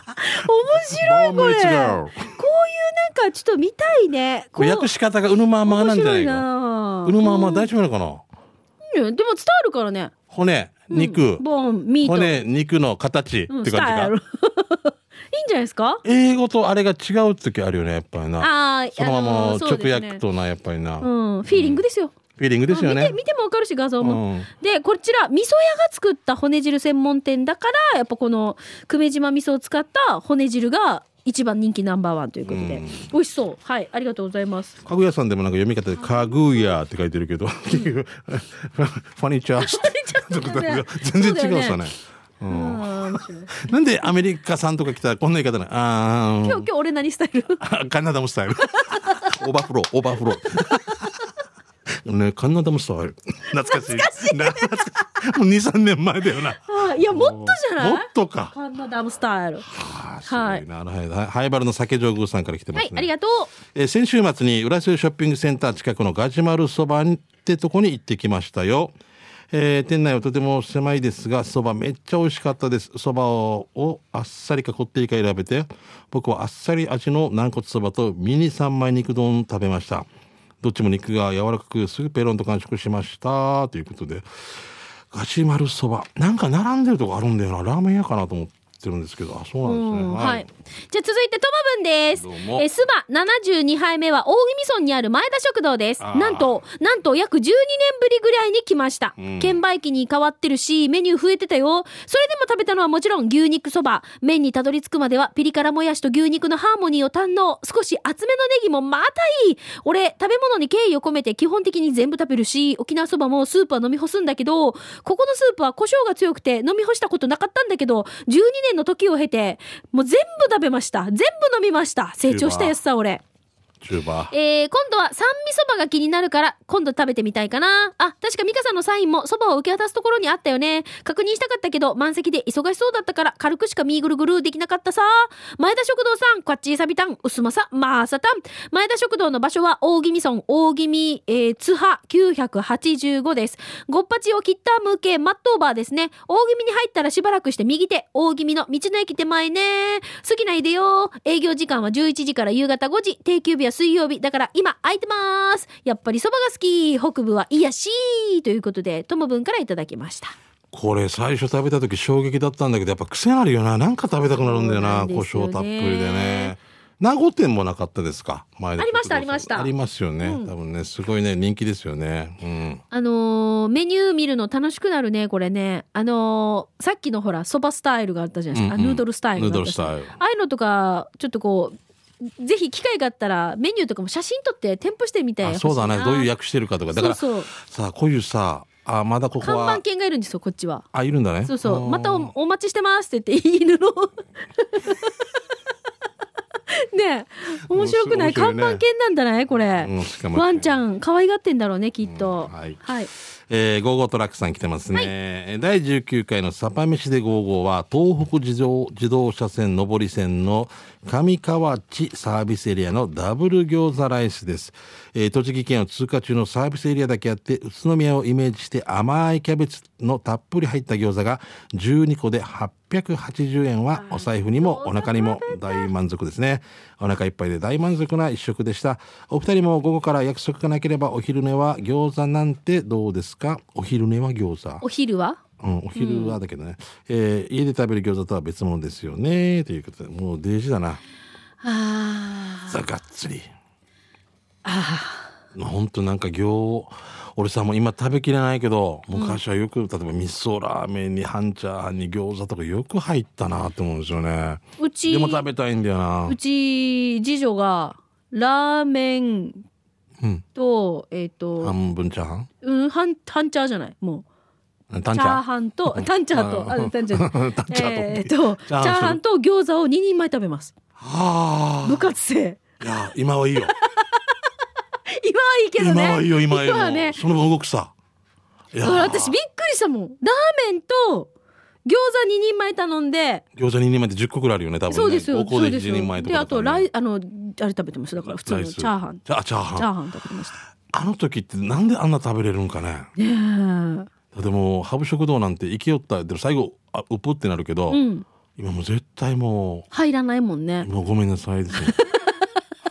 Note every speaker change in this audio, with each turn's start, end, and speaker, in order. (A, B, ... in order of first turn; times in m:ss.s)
0:00.2-0:04.9 A
0:00.7-0:02.3 B
0:04.6-0:06.4 B
0:05.6-0:07.7 A
0:07.0-0:08.2 B
0:08.9-0:10.1 A
0:10.3-0:11.4 B
0:10.9-0:12.4 A
0:12.0-0:14.1 B
0:13.5-0:16.0 A
0:16.0-0:21.8 B
0:18.4-0:20.2 A
0:21.0-0:22.1 A
0:22.4-0:23.2 B
0:22.7-0:34.8 A
0:24.0-0:24.5 B
0:32.4-0:33.1 B
0:34.8-0:46.7 B
0:36.0-0:36.4 A
0:39.6-0:41.8 A
0:42.5-0:43.6 A
0:46.4-0:47.6 A
0:47.6-0:51.2 B
0:48.7-0:49.4 A
0:52.0-0:58.5 B
0:53.5-0:54.9 A
0:56.6-0:59.7 A
0:59.7-1:03.1 B
1:00.2-1:00.6 A
1:02.7-1:03.5 A
1:03.7-1:08.9 B
1:09.5-1:20.1 B
1:20.6-1:30.4 B
1:29.6-2:03.2 A
1:32.2-1:32.6 B
1:36.0-1:36.5 B
1:39.2-1:39.6 B
2:02.2-2:02.7 B
2:03.8-2:04.3 B
2:04.3-2:40.3 A
2:40.7-2:52.8 B
2:44.4-2:46.5 A
2:48.8-2:49.7 A
2:50.2-2:50.5 A
2:52.9-3:01.8 A
2:58.5-3:00.1 B
3:02.4-3:06.3 A
3:05.4-3:09.8 B
3:06.9-3:07.5 A
3:09.4-3:10.8 A
3:10.9-3:12.3 B
3:11.4-3:15.2 A
3:16.7-3:23.1 A
3:17.7-3:18.8 B
3:19.8-3:20.7 B
3:22.0-3:22.8 B
3:23.5-3:54.8 B
3:44.0-3:45.9 A
3:54.8-3:55.4 A
3:55.6-4:01.0 B
3:55.9-3:56.4 A
4:01.6-4:02.8 A
4:02.7-4:03.4 B
4:04.6-4:05.3 A
4:05.5-4:16.4 B
4:09.1-4:09.4 A
4:14.8-4:15.4 A
4:16.2-4:19.6 A
4:20.5-4:21.7 A
4:21.6-4:22.5 B
4:22.6-4:24.2 A
4:24.9-4:29.2 B
4:25.1-4:30.7 A
4:31.0-4:32.1 B
4:31.8-4:32.6 A
4:32.8-4:33.7 B
4:33.7-4:34.3 A
4:35.1-4:37.2 A
4:35.8-4:37.9 B
4:38.7-4:39.4 B
4:38.8-4:41.3 A
4:41.8-4:43.4 A
4:43.6-4:46.9 B
4:44.9-4:49.2 A
4:48.3-4:49.9 B
4:49.8-4:50.5 A
4:50.9-4:53.1 B
4:53.2-4:54.1 A
4:54.3-4:58.0 B
4:57.9-4:58.2 A
4:58.6-4:59.9 B
4:59.9-5:00.9 A
5:00.8-5:02.0 B
5:01.8-5:02.4 A